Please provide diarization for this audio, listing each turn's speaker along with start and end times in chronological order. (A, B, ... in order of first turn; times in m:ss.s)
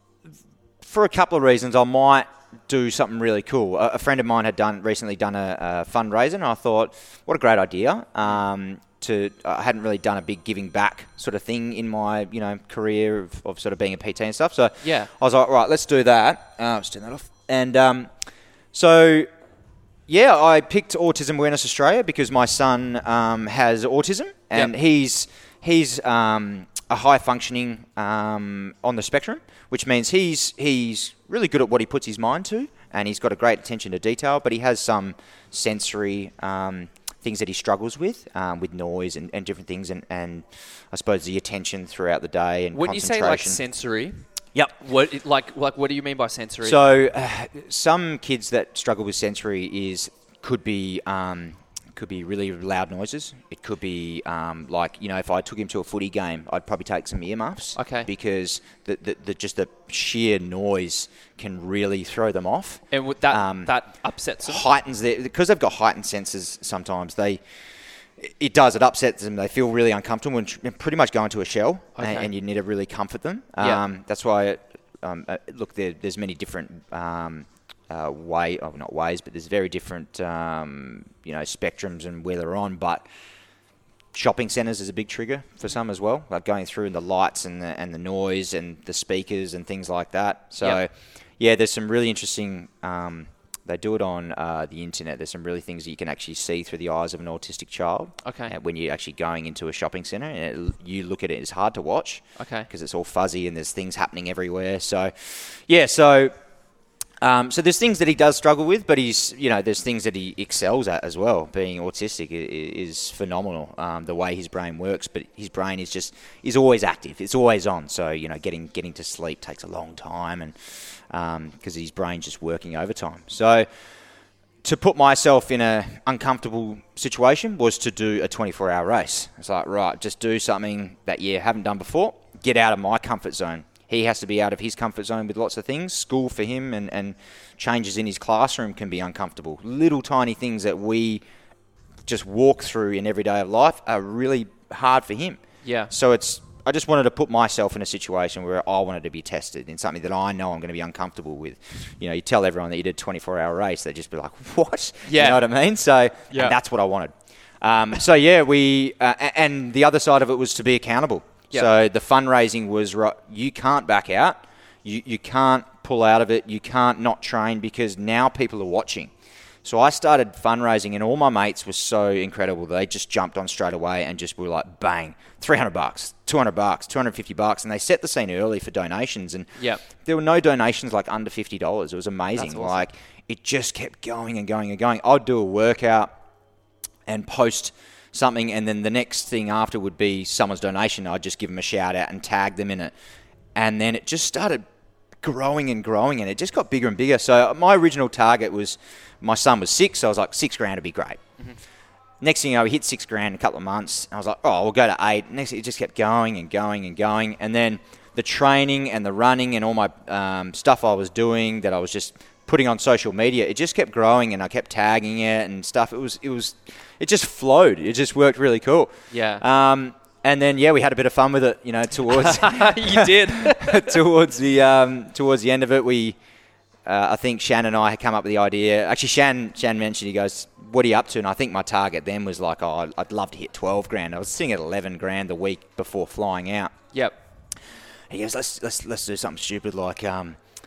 0:00.8-0:18.1 A
0:14.8-0:15.1 B
0:18.7-0:19.3 A
0:20.1-0:43.6 A
0:42.7-0:44.2 B
0:44.8-0:46.8 B
0:46.6-1:03.7 A
0:57.8-0:58.1 B
1:02.9-1:04.7 B
1:04.4-1:07.4 A
1:08.2-1:23.1 A
1:12.0-1:12.3 B
1:24.1-1:46.3 A
1:38.2-1:38.5 B
1:42.4-1:42.7 B
1:47.2-2:00.6 A
2:01.1-2:03.7 A
2:04.6-2:21.2 A
2:22.1-2:49.1 A
2:25.6-2:25.9 B
2:35.1-2:35.4 B
2:49.6-2:59.5 A
3:00.0-3:06.1 A
3:02.4-3:02.9 B
3:07.1-3:12.9 A
3:13.6-3:14.6 A
3:15.2-3:21.2 A
3:22.2-3:46.2 A
3:39.1-3:39.4 B
3:42.1-3:44.0 B
3:46.9-3:56.8 A
3:58.1-4:00.4 A